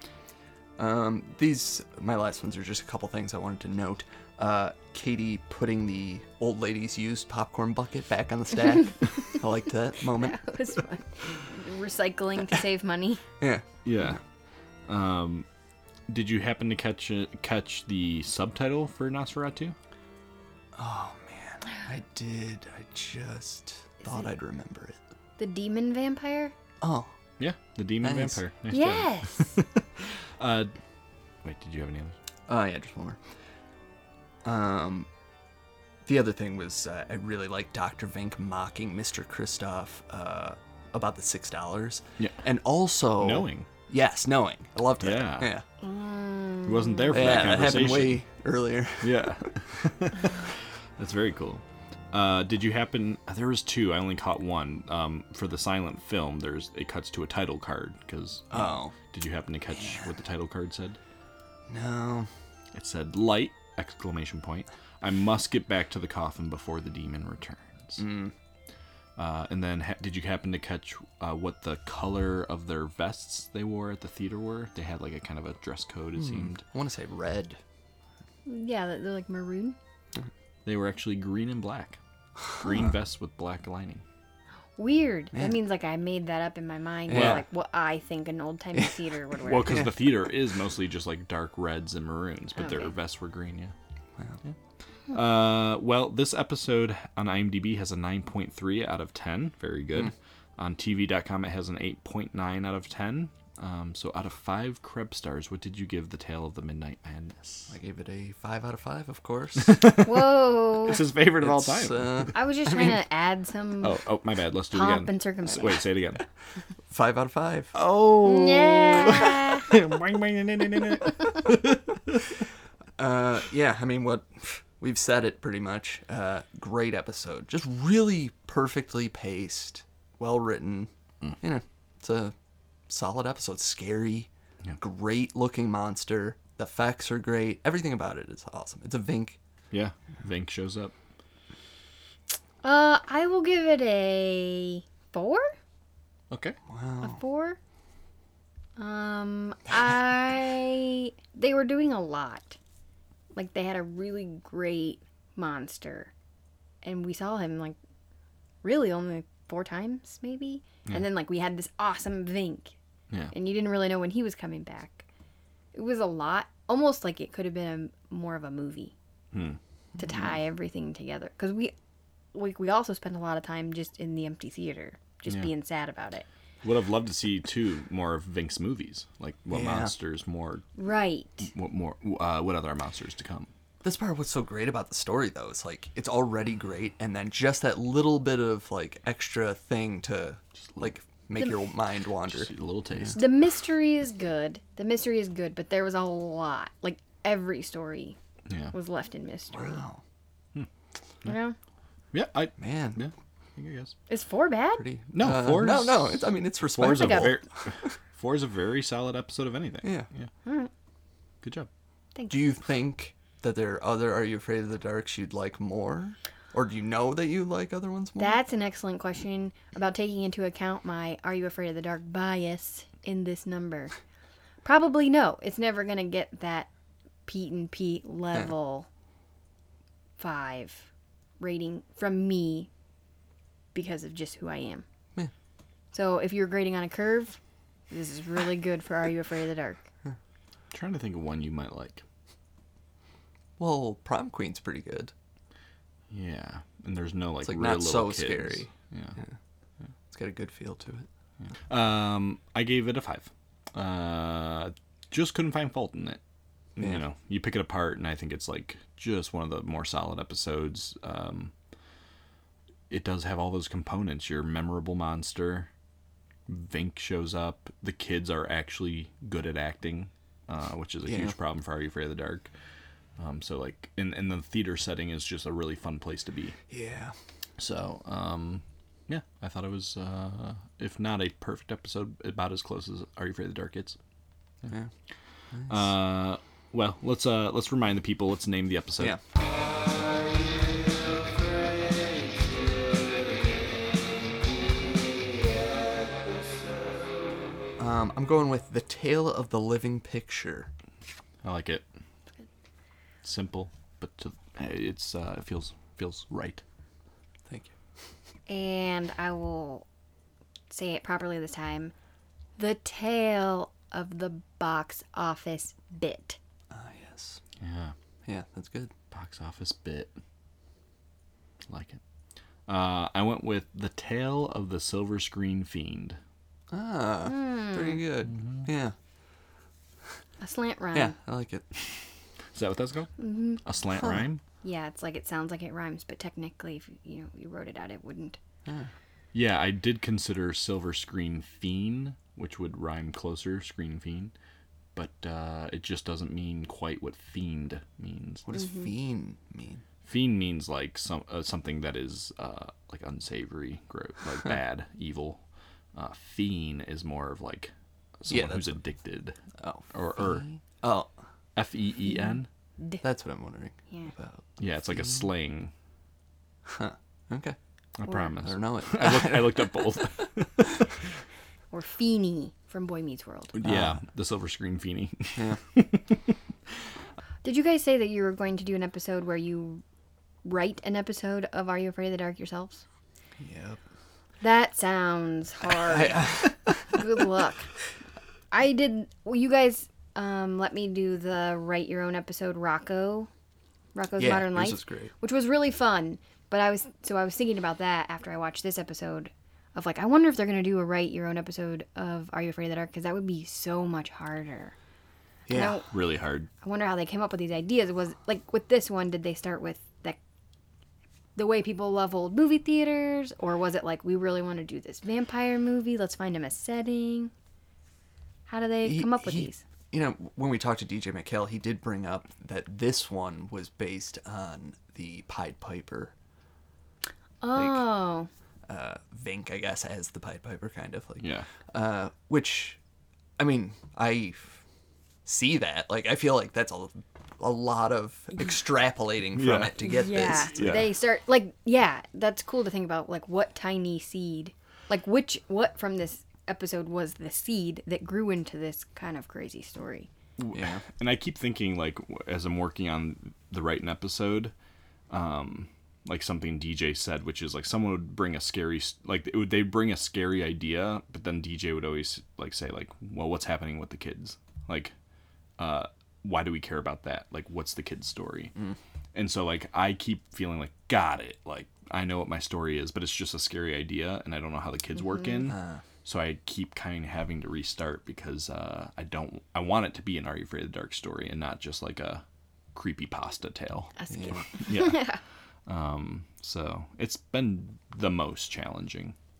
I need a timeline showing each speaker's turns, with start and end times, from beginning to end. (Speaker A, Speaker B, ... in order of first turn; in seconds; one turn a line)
Speaker A: 0.8-10.4
Speaker B: 10.2-13.2
Speaker A: 13.4-14.2
Speaker C: 13.8-14.2
Speaker C: 14.9-15.4
Speaker C: 16.1-19.8
Speaker A: 20.7-25.0
Speaker B: 24.0-24.3
Speaker B: 25.4-26.5
Speaker A: 26.8-27.1
Speaker C: 27.4-30.7
Speaker A: 28.0-28.4
Speaker B: 28.7-29.6
Speaker C: 31.4-32.1
Speaker A: 32.5-33.2
Speaker A: 34.4-35.1
Speaker A: 36.0-45.6
Speaker C: 43.2-43.7
Speaker C: 45.0-45.5
Speaker B: 45.8-47.4
Speaker C: 46.6-48.2
Speaker A: 47.1-49.2
Speaker C: 49.0-61.0
Speaker A: 58.5-58.9
Speaker A: 59.7-60.1
Speaker A: 61.7-62.3
Speaker C: 62.7-68.0
Speaker A: 68.0-68.3
Speaker C: 69.2-76.6
Speaker A: 76.2-77.6
Speaker B: 78.5-79.8
Speaker C: 80.6-82.0
Speaker C: 82.5-84.0
Speaker B: 84.8-89.8
Speaker A: 87.1-87.4
Speaker C: 87.1-87.4
Speaker C: 89.4-93.7
Speaker A: 89.6-89.9
Speaker B: 92.6-92.9
Speaker C: 95.1-107.7
Speaker A: 107.7-109.9
Speaker C: 109.6-112.3
Speaker B: 110.0-111.0
Speaker A: 111.4-112.9
Speaker B: 112.3-114.0
Speaker C: 113.8-116.2
Speaker B: 114.7-115.8
Speaker A: 116.9-117.7
Speaker C: 117.7-122.2
Speaker B: 118.2-119.7
Speaker A: 123.0-132.3
Speaker A: 132.9-139.4
Speaker C: 139.7-140.9
Speaker B: 142.6-145.5
Speaker C: 146.3-146.6
Speaker A: 146.7-147.2
Speaker B: 147.0-147.6
Speaker B: 148.8-152.6
Speaker B: 153.3-156.1
Speaker B: 156.8-157.8
Speaker B: 158.6-162.8
Speaker B: 163.3-165.0
Speaker B: 165.7-168.9
Speaker C: 169.3-169.6
Speaker A: 170.0-170.3
Speaker B: 170.0-171.7
Speaker B: 172.3-176.2
Speaker C: 176.6-180.7
Speaker A: 179.5-179.9
Speaker B: 180.8-181.5
Speaker C: 181.4-183.5
Speaker A: 183.8-193.2
Speaker C: 190.7-190.9
Speaker C: 192.3-193.2
Speaker B: 193.1-198.2
Speaker C: 198.5-198.7
Speaker B: 198.7-199.8
Speaker A: 199.5-200.0
Speaker B: 201.2-201.6
Speaker C: 202.1-203.9
Speaker A: 202.6-203.0
Speaker B: 204.1-204.8
Speaker A: 204.8-207.4
Speaker C: 205.1-210.3
Speaker B: 206.8-207.3
Speaker A: 209.8-210.1
Speaker B: 210.4-210.7
Speaker C: 211.4-211.7
Speaker B: 212.1-212.4
Speaker A: 212.3-218.4
Speaker B: 218.2-223.9
Speaker B: 224.6-226.7
Speaker B: 227.2-228.9
Speaker B: 230.2-230.9
Speaker B: 231.4-232.7
Speaker B: 233.7-234.8
Speaker B: 235.9-237.4
Speaker B: 237.9-239.9
Speaker C: 240.7-242.0
Speaker A: 243.6-245.1
Speaker C: 246.1-249.2
Speaker A: 247.4-249.3
Speaker A: 250.1-251.1
Speaker C: 251.7-256.2
Speaker C: 256.8-261.5
Speaker C: 262.9-265.7
Speaker C: 266.5-272.5
Speaker A: 271.1-271.3
Speaker C: 273.2-276.6
Speaker A: 276.7-277.1
Speaker C: 277.6-284.0
Speaker A: 285.5-285.8
Speaker C: 285.7-289.2
Speaker A: 297.8-300.7
Speaker C: 301.4-301.8
Speaker C: 303.2-306.6
Speaker A: 307.5-307.7
Speaker B: 308.5-309.8
Speaker B: 310.7-311.9
Speaker B: 312.6-316.4
Speaker A: 316.7-317.4
Speaker C: 317.6-317.9
Speaker A: 318.2-318.9
Speaker C: 319.1-320.1
Speaker C: 321.7-322.0
Speaker C: 322.7-326.2
Speaker A: 326.7-328.9
Speaker B: 327.2-328.0
Speaker C: 328.3-328.7
Speaker B: 330.4-331.1
Speaker A: 330.9-331.7
Speaker C: 332.5-334.4
Speaker B: 333.2-333.6
Speaker B: 334.6-338.4
Speaker A: 338.6-338.9
Speaker C: 339.3-344.3
Speaker C: 344.9-348.4
Speaker A: 348.4-349.8
Speaker B: 348.5-348.9
Speaker C: 350.0-355.4
Speaker C: 355.9-359.4
Speaker A: 358.3-358.8
Speaker A: 359.6-361.1
Speaker C: 359.9-360.4
Speaker C: 361.6-362.5
Speaker A: 363.0-365.2
Speaker C: 364.6-365.7
Speaker A: 366.6-367.6
Speaker C: 368.0-370.8
Speaker A: 368.4-370.2
Speaker B: 371.7-373.5
Speaker C: 373.5-376.2
Speaker A: 373.6-374.0
Speaker B: 377.4-379.8
Speaker B: 380.4-382.8
Speaker A: 383.4-383.8
Speaker B: 384.4-386.3
Speaker A: 385.7-387.2
Speaker B: 386.9-387.7
Speaker B: 388.5-393.3
Speaker B: 393.9-404.7
Speaker A: 394.2-395.1
Speaker A: 405.5-405.8
Speaker B: 405.5-405.9
Speaker C: 405.9-406.5
Speaker B: 406.6-410.2
Speaker B: 411.4-417.3
Speaker B: 418.5-419.6
Speaker A: 418.8-426.1
Speaker B: 427.4-428.3
Speaker A: 427.5-427.8
Speaker A: 428.7-432.8
Speaker C: 431.2-431.4
Speaker A: 433.4-434.6
Speaker A: 435.2-440.8
Speaker C: 439.3-439.7
Speaker B: 439.8-450.1
Speaker C: 440.5-440.9
Speaker C: 450.4-454.5
Speaker A: 450.5-450.8
Speaker C: 455.1-464.9
Speaker C: 465.6-468.5
Speaker C: 469.1-482.2
Speaker B: 475.1-475.3
Speaker A: 475.5-475.8
Speaker C: 482.7-483.9
Speaker B: 484.0-485.2
Speaker A: 484.1-484.4
Speaker C: 484.5-485.1
Speaker C: 485.7-489.1